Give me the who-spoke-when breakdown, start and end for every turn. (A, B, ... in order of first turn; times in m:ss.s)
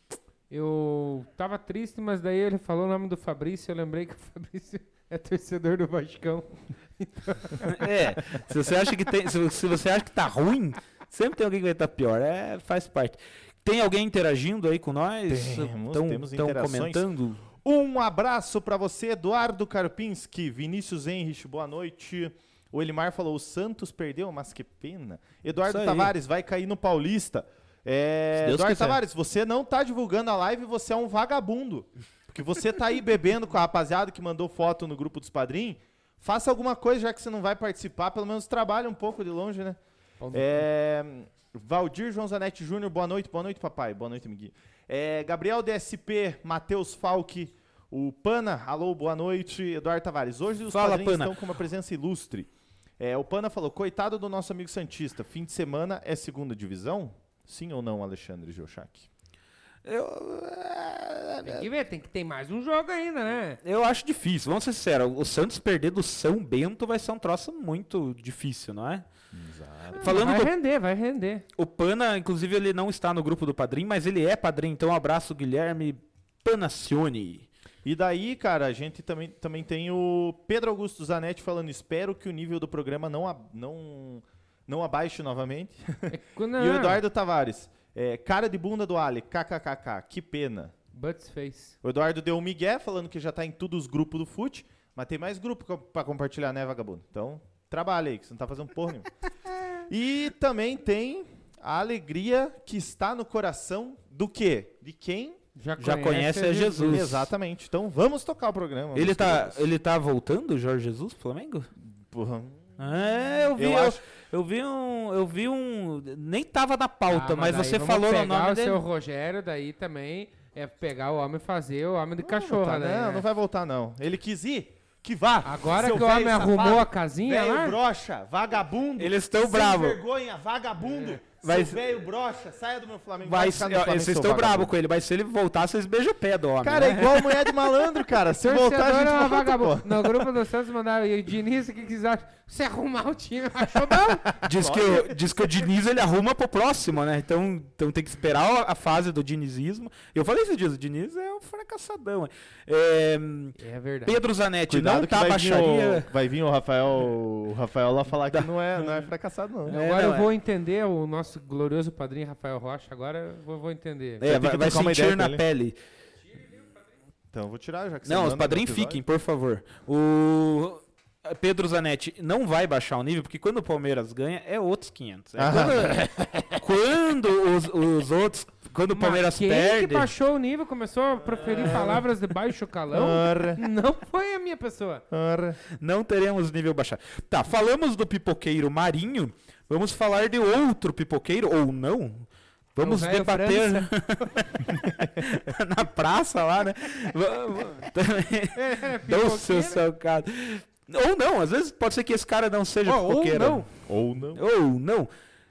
0:00.5-0:07.7 A
0:07.6-0:17.4 B
0:15.3-0:17.0 C
0:17.5-0:39.8 C
0:25.7-0:26.1 B
0:28.4-0:29.0 B
0:40.2-0:40.6 A
0:40.3-0:59.1 C
0:50.7-0:51.3 B
0:59.8-1:01.7 B
1:01.4-1:03.6 A
1:03.6-1:09.1 B
1:09.3-1:10.2 C
1:09.9-1:11.4 A
1:10.0-1:10.5 B
1:11.6-1:17.5 B
1:17.8-1:30.7 C
1:26.1-1:27.0 A
1:30.9-1:31.8 A
1:31.8-1:39.1 C
1:39.9-1:45.4 C
1:45.6-1:47.0 A
1:45.8-1:47.3 B
1:46.8-1:49.6 C
1:48.9-1:51.7 B
1:51.8-1:52.8 C
1:52.8-1:58.8 B
1:53.5-1:54.0 C
1:57.1-2:03.2 A
2:02.2-2:14.7 C
2:05.4-2:07.8 A
2:09.0-2:10.0 B
2:11.4-2:11.9 B
2:13.2-2:17.5 B
2:16.6-2:20.3 C
2:18.4-2:24.4 A
2:24.4-2:36.1 B
2:24.4-2:25.5 C
2:33.6-2:34.2 A
2:34.7-2:39.8 C
2:38.3-2:39.1 B
2:39.6-2:40.3 B
2:39.7-2:44.2 A
2:44.2-2:45.8 B
2:44.2-2:45.4 C
2:47.3-2:49.0 C
2:48.0-3:00.1 B
2:55.4-2:56.5 C
2:58.9-3:05.0 A
3:01.4-3:02.1 C
3:02.9-3:03.6 C
3:05.1-3:05.6 C
3:05.7-3:23.6 B
3:12.8-3:13.9 A
3:18.5-3:19.8 A
3:22.8-3:23.6 A
3:23.8-3:24.4 C
3:24.3-3:25.1 B